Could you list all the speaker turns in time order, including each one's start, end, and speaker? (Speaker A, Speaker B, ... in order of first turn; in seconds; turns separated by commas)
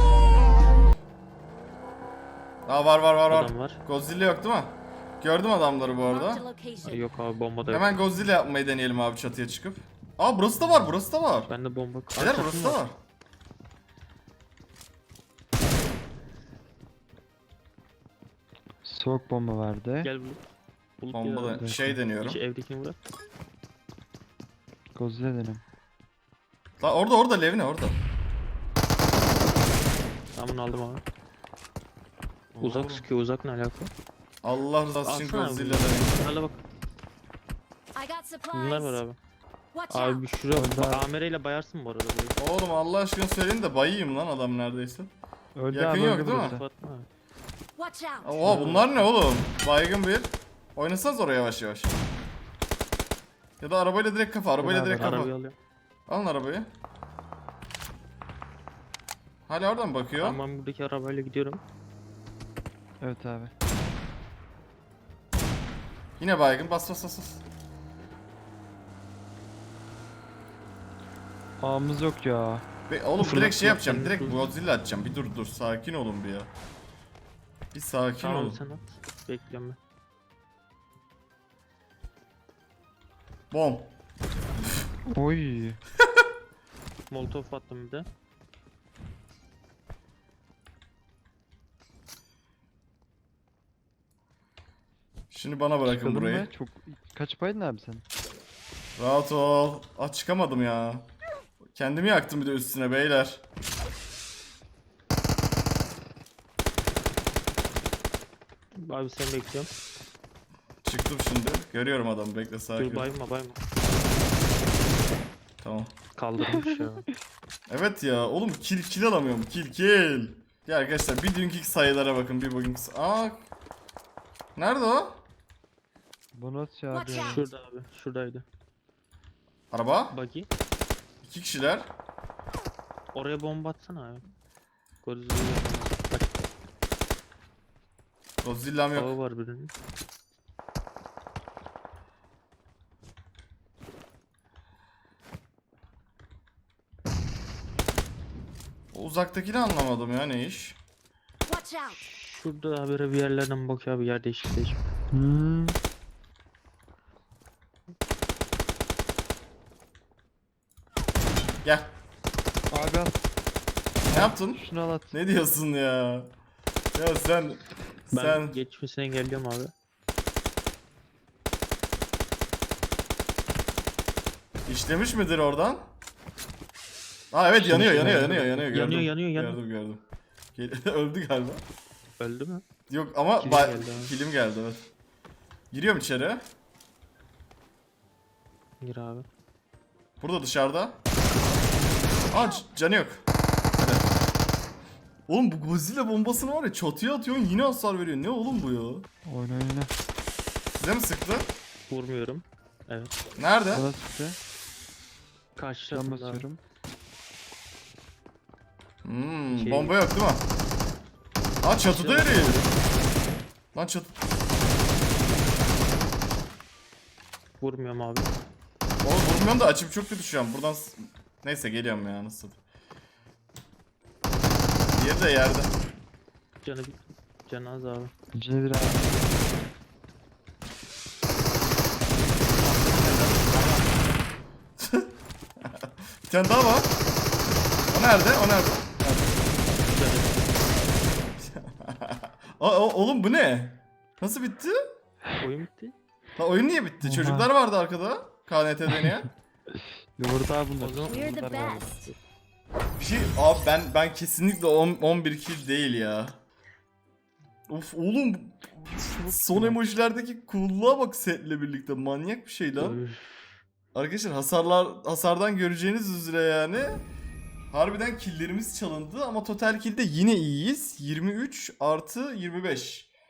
Speaker A: 2.6-6.4, Speaker B: 3.3-3.8, Speaker C: 6.1-7.1, Speaker B: 6.8-7.9, Speaker A: 7.7-11.5, Speaker B: 11.5-12.8, Speaker A: 12.1-13.0, Speaker D: 18.8-20.1, Speaker B: 20.0-20.4, Speaker B: 21.0-23.0, Speaker A: 21.1-22.4, Speaker D: 21.5-22.0, Speaker D: 24.9-25.6, Speaker A: 26.8-28.0, Speaker B: 30.4-31.0, Speaker A: 32.5-33.1, Speaker B: 32.6-33.9, Speaker A: 34.4-36.2, Speaker B: 35.0-36.6, Speaker C: 37.9-39.0, Speaker B: 38.5-39.2, Speaker C: 39.7-40.2, Speaker B: 39.9-42.3, Speaker D: 40.5-41.0, Speaker A: 42.4-45.1, Speaker D: 45.6-46.6, Speaker A: 45.7-46.6, Speaker B: 46.2-47.1, Speaker C: 47.8-48.5, Speaker A: 48.2-51.9, Speaker B: 48.4-48.9, Speaker A: 53.6-55.3, Speaker D: 54.6-55.3, Speaker B: 54.8-55.5, Speaker A: 56.1-56.7, Speaker A: 59.5-60.4, Speaker B: 60.2-61.6, Speaker D: 63.0-63.5, Speaker A: 66.2-67.4, Speaker D: 71.6-72.6, Speaker A: 72.9-76.5, Speaker B: 73.2-74.5, Speaker A: 77.7-78.6, Speaker B: 78.2-79.8, Speaker A: 83.5-83.9, Speaker D: 85.1-85.8, Speaker B: 87.1-88.1, Speaker A: 95.3-96.5, Speaker D: 95.8-98.0, Speaker A: 99.0-101.1, Speaker A: 101.7-103.4, Speaker B: 108.8-109.7, Speaker A: 110.8-113.1, Speaker B: 112.7-113.7, Speaker A: 115.6-115.9, Speaker B: 116.2-117.0, Speaker D: 116.4-116.8, Speaker A: 117.7-123.4, Speaker A: 124.5-125.2, Speaker D: 126.3-127.5, Speaker C: 126.9-127.4, Speaker B: 127.0-128.4, Speaker A: 129.7-130.1, Speaker B: 130.1-130.5, Speaker A: 131.2-131.9, Speaker B: 133.1-134.2, Speaker B: 135.0-136.5, Speaker A: 138.4-139.1, Speaker B: 138.9-139.7, Speaker A: 148.9-150.8, Speaker C: 151.5-152.0, Speaker B: 151.9-154.9, Speaker D: 155.1-155.8, Speaker A: 161.6-161.9, Speaker D: 162.7-163.2, Speaker D: 164.1-165.2, Speaker A: 164.1-166.3, Speaker A: 166.9-168.5, Speaker B: 168.1-169.7, Speaker A: 174.7-175.8, Speaker A: 177.3-180.0, Speaker D: 177.5-178.7, Speaker B: 178.6-179.6, Speaker A: 180.5-181.6, Speaker B: 182.2-182.6, Speaker A: 182.9-184.8, Speaker B: 183.4-184.1, Speaker A: 185.7-186.4, Speaker B: 188.8-189.2, Speaker A: 190.2-191.0, Speaker A: 192.3-193.2, Speaker A: 193.8-194.0, Speaker A: 195.3-199.1, Speaker D: 199.2-199.9, Speaker A: 200.7-201.5, Speaker B: 201.9-203.1, Speaker A: 203.4-203.8, Speaker D: 203.7-204.4, Speaker B: 205.6-206.4, Speaker D: 205.9-206.6, Speaker A: 209.0-210.4, Speaker B: 209.5-209.9, Speaker A: 211.6-212.6, Speaker B: 211.8-212.8, Speaker A: 213.7-214.1, Speaker B: 217.6-218.3, Speaker A: 219.0-222.6, Speaker A: 224.9-225.7, Speaker B: 226.6-228.1, Speaker D: 228.3-229.2, Speaker B: 232.5-234.2, Speaker A: 234.8-235.1, Speaker A: 235.6-236.9, Speaker A: 237.9-238.9, Speaker D: 239.0-239.3, Speaker B: 239.8-240.6, Speaker A: 241.4-244.8, Speaker B: 245.4-245.9, Speaker A: 246.3-249.3, Speaker D: 247.0-247.5, Speaker D: 250.2-252.0, Speaker B: 250.8-252.2, Speaker C: 251.1-251.9, Speaker A: 253.0-256.4, Speaker A: 257.7-263.0, Speaker B: 262.8-263.6, Speaker A: 263.9-267.0, Speaker A: 267.7-273.1